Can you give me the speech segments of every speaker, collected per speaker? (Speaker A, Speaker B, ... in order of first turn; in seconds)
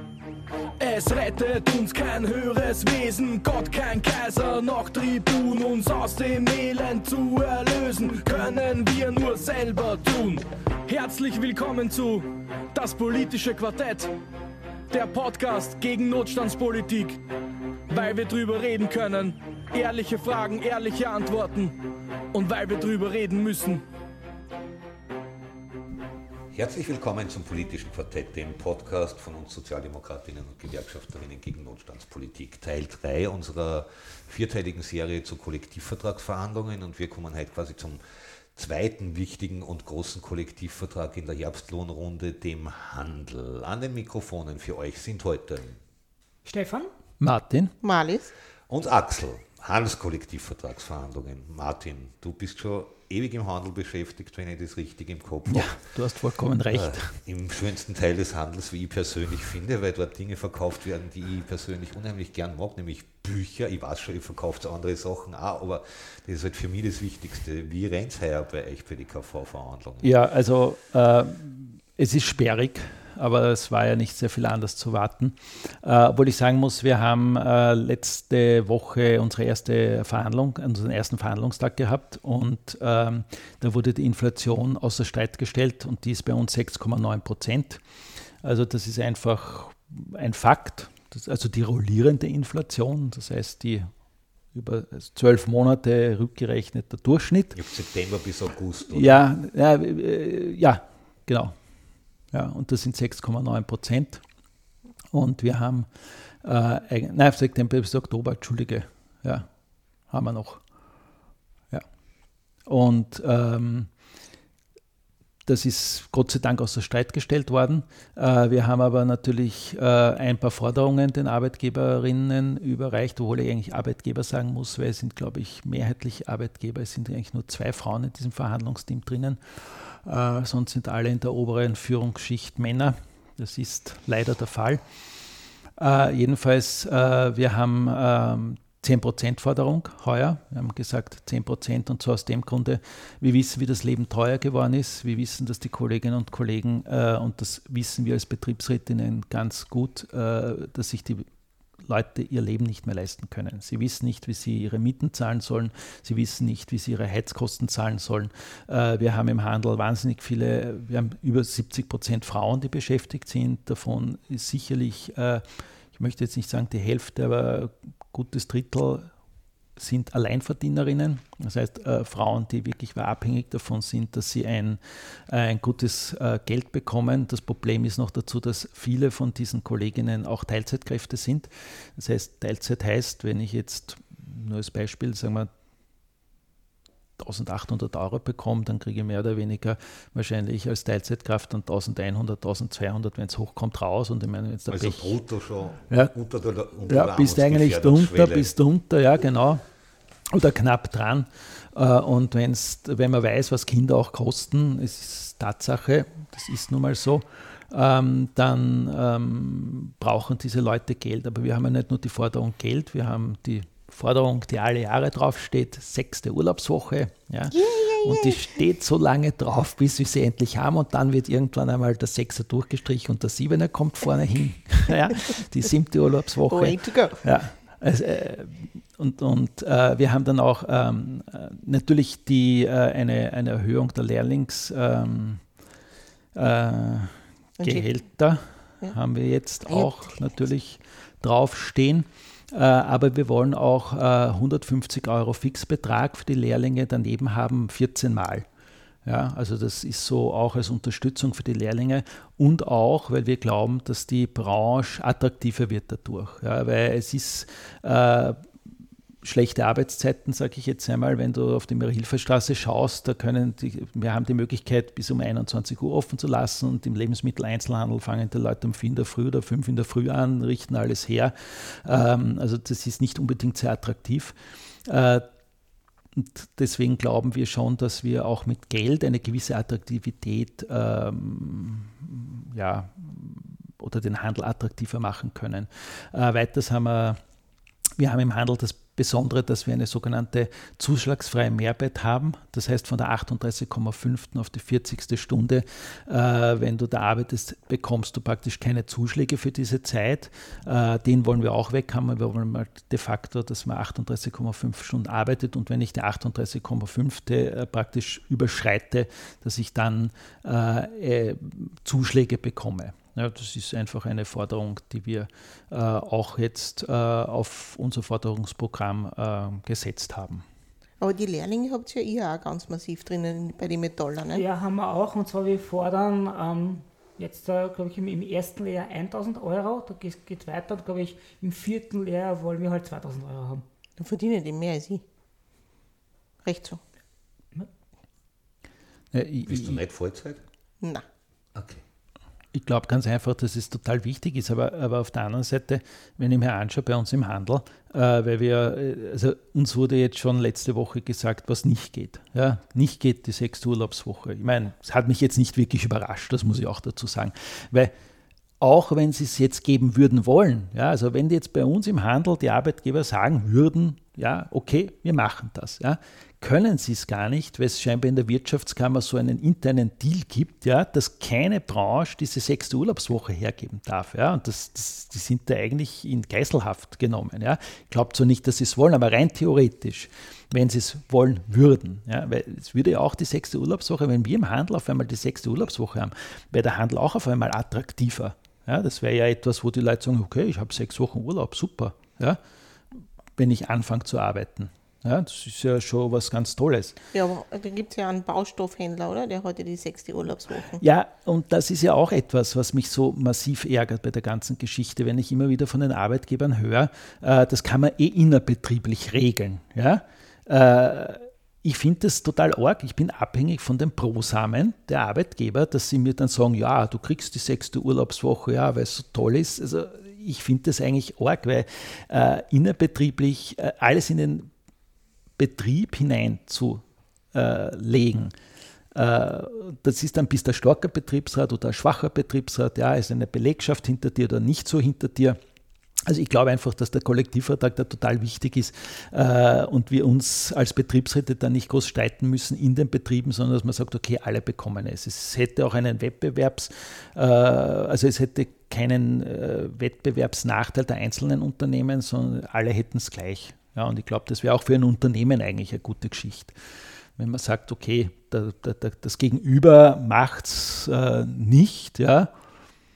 Speaker A: 0.8-14.1, 14.9-17.2, 17.9-21.7, 22.3-23.8
Speaker B: 26.5-38.0, 38.5-45.8, 48.7-55.8, 56.7-70.1, 97.5-99.2, 194.7-198.5, 339.5-340.4, 341.5-341.8
Speaker C: 46.5-46.9, 324.3-333.6
Speaker D: 47.2-47.8, 55.5-57.1, 70.0-87.8, 88.4-93.9, 94.5-97.6, 98.9-101.5, 102.3-104.2, 105.1-105.9, 106.4-109.5, 110.1-110.6, 112.7-113.9, 115.5-134.8, 135.8-151.3, 151.9-165.4, 165.9-169.1, 169.8-185.5, 187.2-195.2, 195.9-196.1, 196.9-199.6, 200.3-235.4, 236.3-248.5, 249.1-258.4, 259.2-275.3, 276.1-287.2, 288.0-320.4, 339.1-339.8, 342.5-357.9, 358.6-392.4, 393.4-397.0, 400.8-424.5, 425.4-428.3, 428.9-435.4, 436.1-456.5, 457.2-462.3
Speaker E: 47.8-48.3, 217.5-218.4, 226.5-227.2, 237.6-237.9, 321.0-324.4, 334.0-335.0, 336.4-336.8, 397.1-400.8